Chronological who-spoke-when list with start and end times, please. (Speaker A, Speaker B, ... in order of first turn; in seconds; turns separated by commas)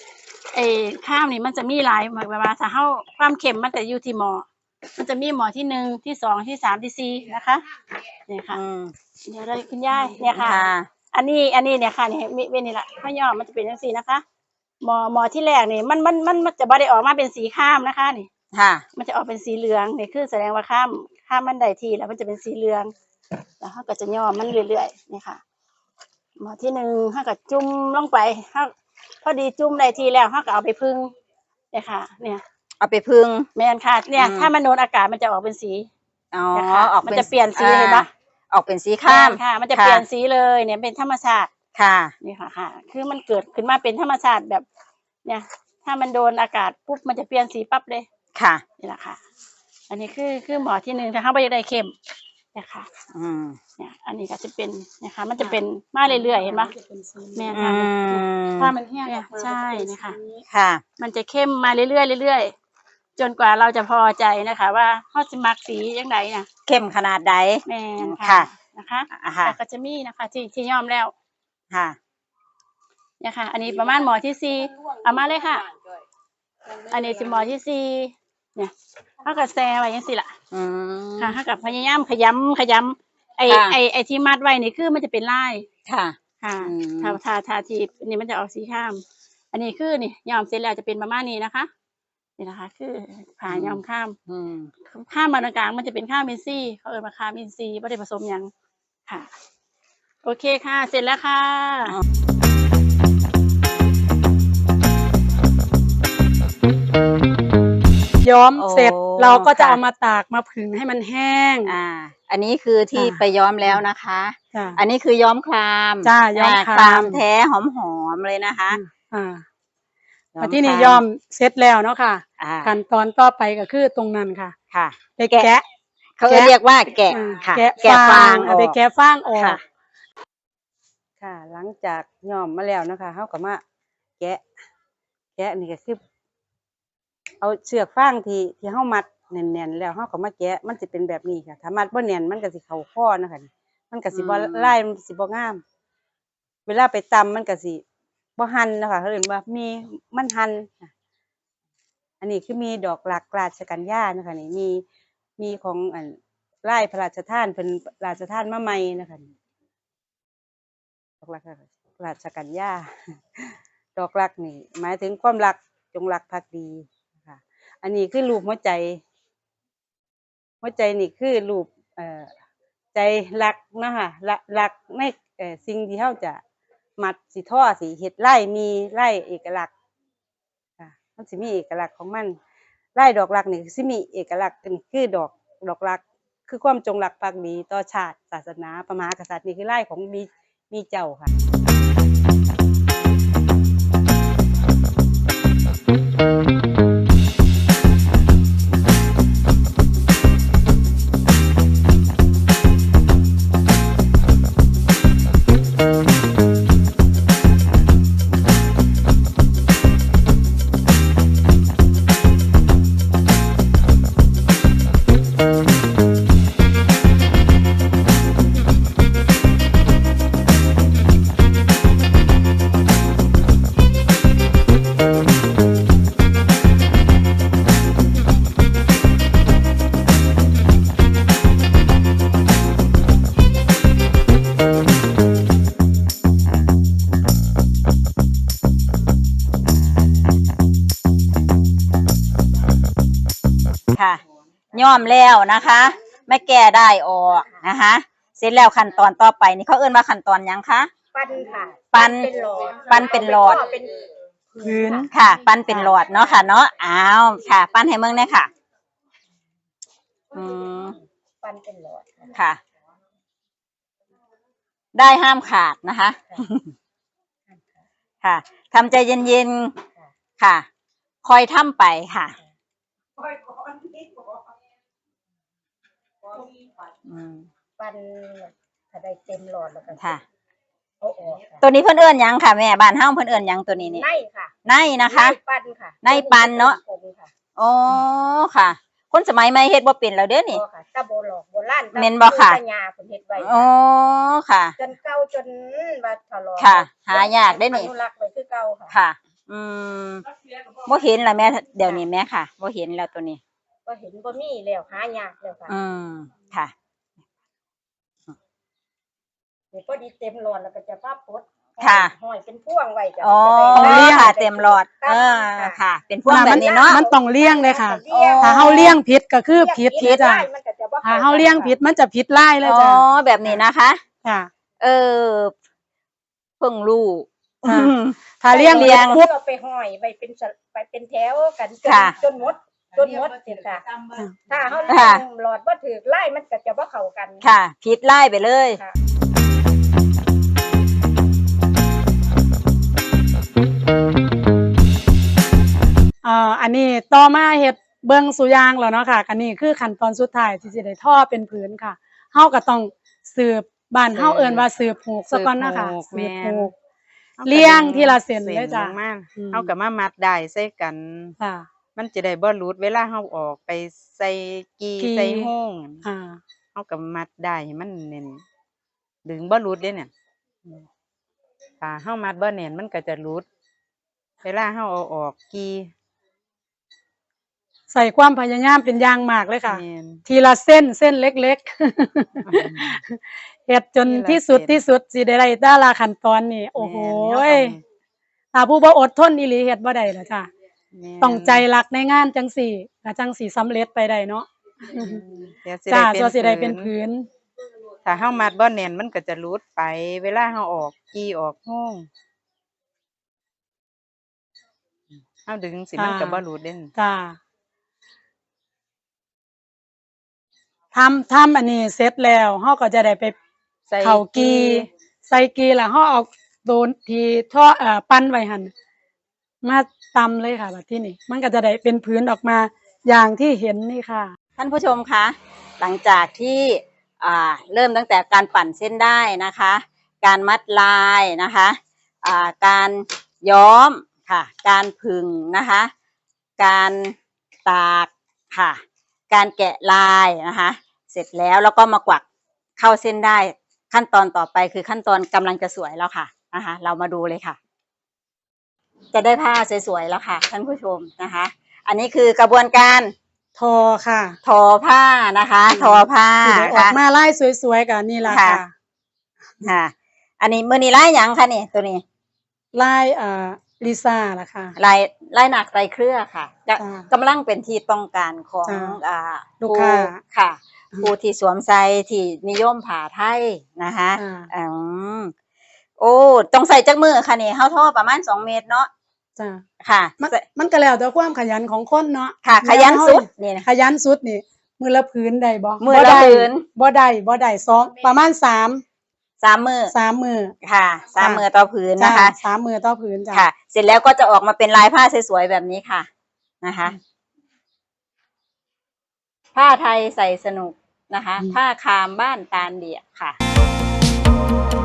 Speaker A: 0.5-4.5, Speaker A: 5.0-7.6, Speaker A: 8.3-8.6, Speaker B: 8.5-8.9, Speaker A: 9.3-14.2, Speaker B: 10.3-10.9, Speaker A: 14.8-18.3, Speaker B: 18.5-18.8, Speaker A: 18.9-22.9, Speaker A: 23.6-25.4, Speaker A: 26.4-31.1, Speaker A: 31.7-32.4, Speaker B: 32.8-33.5, Speaker A: 33.5-35.9, Speaker B: 34.2-34.5, Speaker B: 36.3-40.0, Speaker A: 36.5-38.1, Speaker A: 39.0-41.5, Speaker B: 41.7-42.1, Speaker A: 42.2-44.6, Speaker A: 45.2-48.1, Speaker B: 48.3-48.6, Speaker A: 48.8-49.2, Speaker A: 49.9-51.9, Speaker A: 52.5-52.9, Speaker B: 53.1-53.6, Speaker A: 53.8-56.7, Speaker C: 55.4-57.6, Speaker A: 57.3-58.2, Speaker B: 57.5-58.7, Speaker C: 58.6-60.4, Speaker A: 59.0-60.1, Speaker B: 60.5-60.8, Speaker A: 61.0-62.5, Speaker A: 63.2-66.5, Speaker B: 66.7-68.5, Speaker A: 67.7-71.1, Speaker B: 69.1-69.5, Speaker B: 71.7-72.0, Speaker A: 73.2-75.7, Speaker A: 76.8-78.7, Speaker A: 79.2-80.3, Speaker B: 80.5-81.4, Speaker A: 81.2-85.7, Speaker B: 83.5-83.8, Speaker B: 85.8-87.2, Speaker A: 86.4-91.7, Speaker A: 92.4-94.2, Speaker B: 93.5-94.7, Speaker A: 94.8-98.5, Speaker A: 100.2-102.0, Speaker C: 108.2-111.7, Speaker B: 108.6-109.8, Speaker B: 111.7-118.8, Speaker C: 112.9-113.2, Speaker C: 114.5-114.8, Speaker C: 116.0-117.2, Speaker C: 118.7-119.4, Speaker B: 120.3-121.0, Speaker C: 120.4-124.5, Speaker B: 122.4-122.7, Speaker B: 124.7-125.5, Speaker C: 125.2-125.6, Speaker B: 126.2-128.8, Speaker C: 126.3-126.5, Speaker C: 127.1-129.6, Speaker B: 129.3-129.6, Speaker D: 131.2-133.6, Speaker D: 134.2-134.4, Speaker D: 135.4-136.0, Speaker D: 137.4-145.6, Speaker B: 144.1-144.7, Speaker D: 146.7-147.8, Speaker D: 148.4-150.9, Speaker D: 152.2-154.8, Speaker D: 155.4-159.3, Speaker D: 161.2-169.0, Speaker D: 170.6-172.3, Speaker D: 172.9-176.4, Speaker D: 177.0-179.7, Speaker D: 180.8-182.4, Speaker D: 182.9-191.3, Speaker B: 243.9-244.2, Speaker B: 244.7-250.9, Speaker E: 251.1-253.9, Speaker B: 251.9-253.7, Speaker C: 254.6-255.1, Speaker B: 255.1-258.5, Speaker B: 260.3-261.0, Speaker E: 261.4-262.3, Speaker B: 262.3-262.6, Speaker B: 264.9-266.7, Speaker E: 267.5-267.8, Speaker B: 268.2-269.8, Speaker B: 270.4-270.6, Speaker B: 271.2-272.4, Speaker B: 277.1-277.5, Speaker E: 277.8-280.1, Speaker B: 280.0-280.2, Speaker E: 281.0-281.6, Speaker B: 281.6-284.0, Speaker E: 283.9-284.5, Speaker B: 284.6-285.4, Speaker E: 285.1-287.3, Speaker B: 286.0-286.8, Speaker B: 287.6-290.6, Speaker E: 290.5-293.7, Speaker B: 291.9-292.6, Speaker B: 293.4-294.8, Speaker E: 294.8-298.9, Speaker B: 296.6-297.9, Speaker B: 298.9-300.3, Speaker B: 300.8-303.4, Speaker E: 303.9-305.7, Speaker B: 305.7-306.7, Speaker E: 309.7-315.8, Speaker B: 311.8-312.1, Speaker B: 313.2-317.1, Speaker C: 313.7-314.3, Speaker C: 316.2-320.4, Speaker E: 316.6-318.8, Speaker B: 318.1-319.0, Speaker E: 319.5-321.8, Speaker B: 320.0-320.3, Speaker C: 321.0-323.0, Speaker B: 322.6-324.0, Speaker C: 324.2-324.5, Speaker B: 324.8-325.5, Speaker B: 326.6-329.2, Speaker C: 327.6-329.3, Speaker E: 328.5-333.9, Speaker B: 331.8-332.1, Speaker E: 334.5-337.4, Speaker B: 334.9-335.2, Speaker B: 337.4-338.8, Speaker C: 346.2-356.7, Speaker F: 354.1-354.6, Speaker F: 355.3-356.7, Speaker F: 357.4-361.3, Speaker C: 357.4-359.7, Speaker C: 361.4-361.7, Speaker F: 361.9-366.0, Speaker C: 365.0-365.5, Speaker C: 366.0-366.4, Speaker F: 366.7-368.4, Speaker F: 369.2-370.1, Speaker F: 371.8-373.4, Speaker F: 374.4-375.9, Speaker C: 377.9-387.7, Speaker F: 379.6-380.2, Speaker F: 382.4-383.0, Speaker F: 384.0-384.8, Speaker F: 386.8-387.8, Speaker C: 388.5-390.5, Speaker F: 390.9-391.6, Speaker C: 391.2-395.2, Speaker F: 394.9-396.9, Speaker C: 395.9-397.3, Speaker F: 398.0-402.1, Speaker F: 405.4-406.9, Speaker C: 405.9-406.4, Speaker C: 406.9-407.4, Speaker C: 410.9-413.3, Speaker F: 413.9-414.9, Speaker C: 414.0-418.7, Speaker C: 419.6-424.3, Speaker B: 424.6-435.9, Speaker B: 436.6-442.2, Speaker B: 442.8-447.6, Speaker B: 449.1-453.1, Speaker C: 453.6-454.4, Speaker B: 454.4-456.9, Speaker C: 455.8-458.7, Speaker B: 458.2-458.6, Speaker B: 459.6-462.0, Speaker C: 462.7-464.7, Speaker B: 464.8-475.3, Speaker C: 466.8-467.1, Speaker C: 468.6-469.0, Speaker C: 469.6-470.2, Speaker C: 474.2-474.5, Speaker B: 476.0-478.9, Speaker C: 479.4-479.6, Speaker B: 479.8-480.4, Speaker C: 480.2-488.8, Speaker B: 482.4-483.7, Speaker B: 485.8-486.6, Speaker B: 489.4-489.9, Speaker C: 489.9-490.5, Speaker B: 490.6-492.4, Speaker C: 492.0-493.5, Speaker B: 493.3-496.1, Speaker B: 496.6-496.9, Speaker B: 499.5-503.4